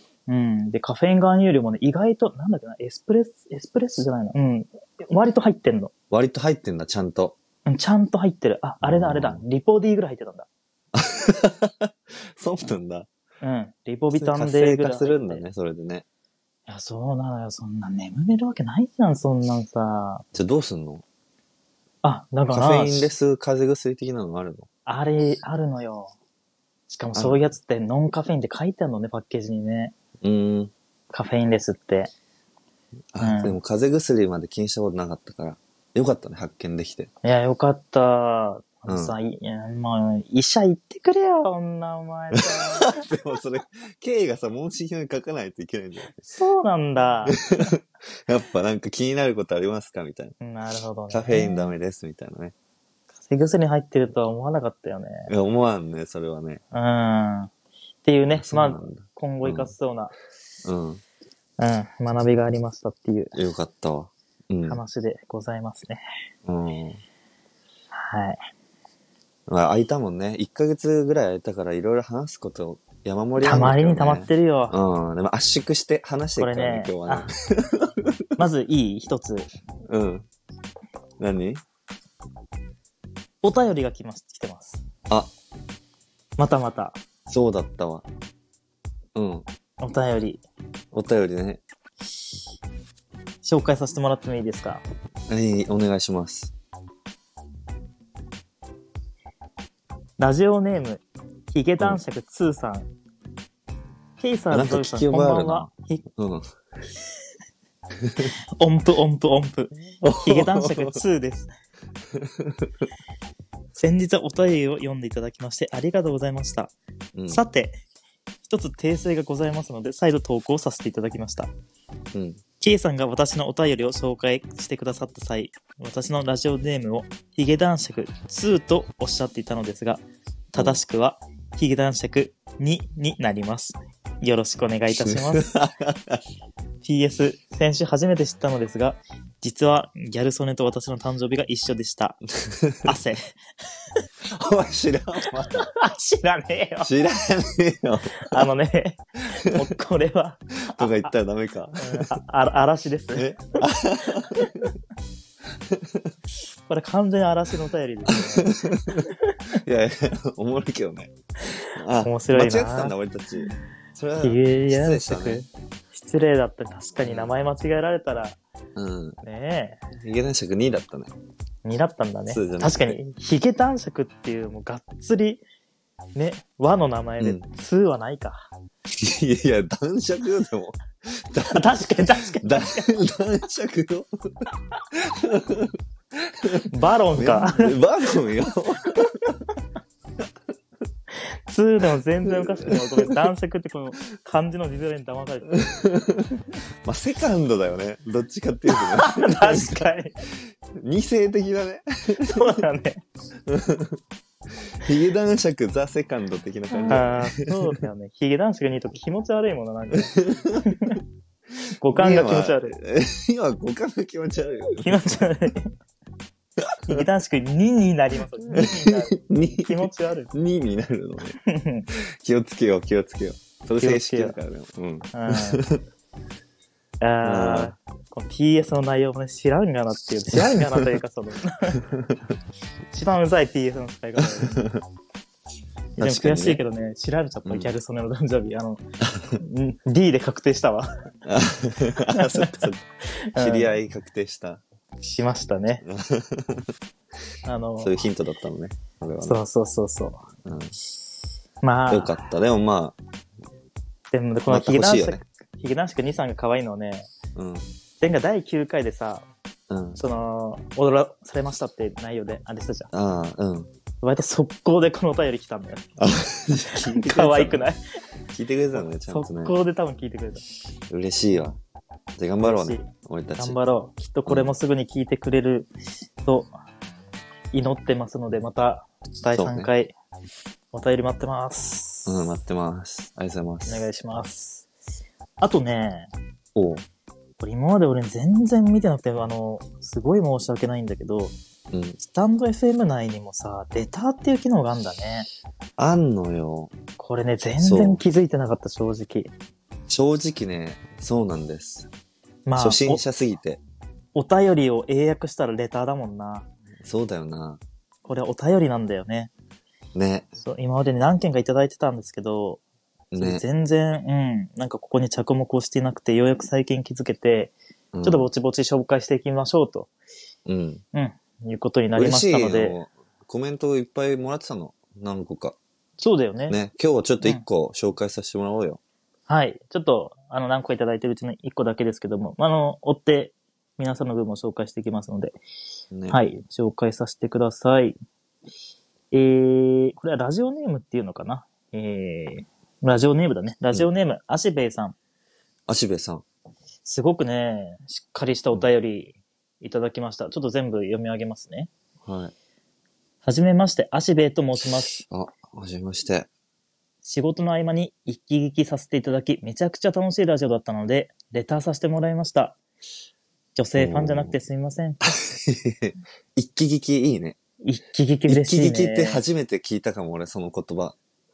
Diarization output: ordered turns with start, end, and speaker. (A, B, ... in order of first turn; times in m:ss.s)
0:00.3-0:05.9 A
0:06.1-0:07.4 B
0:07.6-0:10.5 A
0:08.8-0:09.4 B
0:10.9-0:13.1 B
0:13.4-0:15.4 A
0:14.1-0:16.0 B
0:16.7-0:20.2 A
0:20.3-0:21.0 B
0:22.0-0:23.1 A
0:22.5-0:24.7 B
0:24.8-0:26.1 A
0:26.9-0:29.9 A
0:27.1-0:27.4 B
0:30.2-0:30.7 B
0:31.1-0:32.1 A
0:33.1-0:37.1 B
0:33.2-0:33.6 A
0:37.2-0:43.0 A
0:38.9-0:39.2 B
0:42.3-0:46.2 B
0:46.2-0:47.4 A
0:47.2-0:50.3 B
0:50.4-0:51.7 A
0:51.1-0:52.5 B
0:53.2-0:55.3 A
0:55.3-0:56.6 B
0:56.7-0:57.5 A
0:58.0-1:00.1 A
0:58.3-0:59.7 B
1:00.6-1:01.0 B
1:01.6-1:03.3 A
1:03.3-1:04.8 B
1:04.6-1:06.0 A
1:06.4-1:07.0 B
1:07.9-1:08.4 A
1:09.5-1:18.1 B
1:13.4-1:14.8 A
1:16.4-1:17.3 A
1:18.4-1:19.5 A
1:19.9-1:20.3 B
1:21.2-1:21.6 B
1:23.4-1:24.8 A
1:26.4-1:27.0 A
1:27.3-1:28.0 B
1:29.1-1:29.4 B
1:29.8-1:30.4 A
1:30.9-1:31.6 B
1:33.4-1:34.8 A
1:35.3-1:36.5 B
1:40.2-1:42.9 A
1:44.2-1:46.0 A
1:44.5-1:46.4 B
1:48.6-1:51.5 A
1:50.0-1:51.0 B
1:52.1-1:52.9 B
1:53.7-1:56.7 A
1:57.1-1:57.4 B
1:57.3-1:57.8 A
1:58.4-2:01.5 A
2:02.1-2:02.4 B
2:02.6-2:10.0 A
2:10.5-2:15.6 A
2:10.6-2:10.8 B
2:14.9-2:16.2 B
2:16.8-2:22.2 A
2:22.4-2:22.9 B
2:22.8-2:23.3 A
2:24.3-2:25.7 B
2:25.6-2:26.9 A
2:26.8-2:28.4 B
2:28.2-2:31.1 A
2:30.6-2:32.1 B
2:31.8-2:33.4 A
2:33.1-2:34.7 B
2:34.3-2:34.7 A
2:35.7-2:36.1 B
2:36.7-2:39.3 A
2:38.0-2:45.4 B
2:42.0-2:42.9 A
2:44.2-2:48.4 A
2:47.0-2:47.3 B
2:48.8-2:49.2 B
2:49.2-2:49.8 A
2:49.9-2:51.1 B
2:51.6-2:55.4 A
2:52.3-2:53.0 B
2:56.1-2:58.5 A
2:57.2-2:57.5 B
2:58.9-3:04.1 B
3:01.5-3:02.9 A
3:04.9-3:09.4 B
3:06.7-3:07.8 A
3:11.3-3:15.7 A
3:12.2-3:13.2 B
3:15.5-3:19.9 B
3:18.7-3:20.1 A
3:20.8-3:22.5 B
3:22.2-3:23.0 A
3:23.5-3:24.0 B
3:24.8-3:27.8 B
3:26.8-3:31.0 A
3:30.1-3:30.8 B
3:31.8-3:32.8 A
3:31.9-3:35.3 B
3:34.8-3:35.7 A
3:36.7-3:37.0 B
3:36.9-3:40.3 A
3:38.5-3:41.4 B
3:41.4-3:41.8 A
3:42.2-3:45.8 B
3:43.8-3:44.4 A
3:45.1-3:45.6 A
3:47.0-3:51.8 A
3:47.2-3:47.7 B
3:50.4-3:50.8 B
3:51.9-3:52.2 B
3:52.9-3:54.6 A
3:54.2-3:54.8 B
3:56.0-3:58.8 A
3:56.0-3:56.6 B
3:57.4-3:57.7 B
3:59.1-3:59.4 B
3:59.4-4:00.9 A
4:01.2-4:02.8 B
4:02.1-4:02.7 A
4:03.3-4:03.7 A
4:03.4-4:04.6 B
4:05.0-4:05.8 A
4:05.8-4:06.7 B
4:07.4-4:08.0 A
4:07.8-4:09.4 B
4:09.2-4:10.2 A
4:10.4-4:10.7 B
4:11.6-4:12.2 A
4:11.9-4:13.0 B
4:14.1-4:17.1 A
4:14.5-4:15.2 B
4:17.3-4:17.7 B
4:18.0-4:19.2 A
4:19.7-4:20.0 B
4:20.0-4:22.9 A
4:22.9-4:23.7 B
4:24.0-4:25.9 A
4:26.0-4:27.6 B
4:26.9-4:27.8 A
4:28.3-4:29.5 B
4:29.1-4:30.4 A
4:30.9-4:31.6 B
4:32.2-4:33.6 B
4:32.4-4:35.7 A
4:36.2-4:36.5 A
4:37.5-4:39.9 A
4:39.3-4:39.7 B
4:40.7-4:42.1 A
4:42.0-4:43.8 B
4:43.7-4:44.6 A
4:45.4-4:46.1 A
4:46.5-4:46.8 B
4:47.4-4:51.3 A
4:51.7-4:52.0 B
4:52.0-4:55.3 A
4:55.8-4:56.7 B
4:57.0-4:59.3 A
4:57.6-4:58.0 B
4:59.9-5:01.9 B
5:02.4-5:03.0 A
5:02.6-5:03.6 B
5:04.1-5:06.5 A
5:06.8-5:07.6 B
5:08.0-5:09.3 A
5:09.9-5:10.3 B
5:10.4-5:12.6 A
5:13.1-5:13.4 B
5:13.2-5:17.5 A
5:17.9-5:18.3 B
5:18.0-5:19.9 A
5:20.4-5:20.8 B
5:20.9-5:22.8 A
5:22.0-5:25.6 B
5:26.0-5:26.6 A
5:26.5-5:28.8 B
5:29.3-5:35.4 A
5:35.9-5:36.2 B
5:36.1-5:38.0 A
5:39.1-5:44.9 A
5:45.7-5:46.2 B
5:46.8-5:51.7 A
5:52.0-5:52.3 B
5:53.2-5:55.0 A
5:55.0-5:56.3 B
5:57.0-6:02.6 A
6:03.6-6:05.1 A
6:03.8-6:04.4 B
6:05.0-6:07.4 B
6:07.6-6:09.2 A
6:08.3-6:11.0 B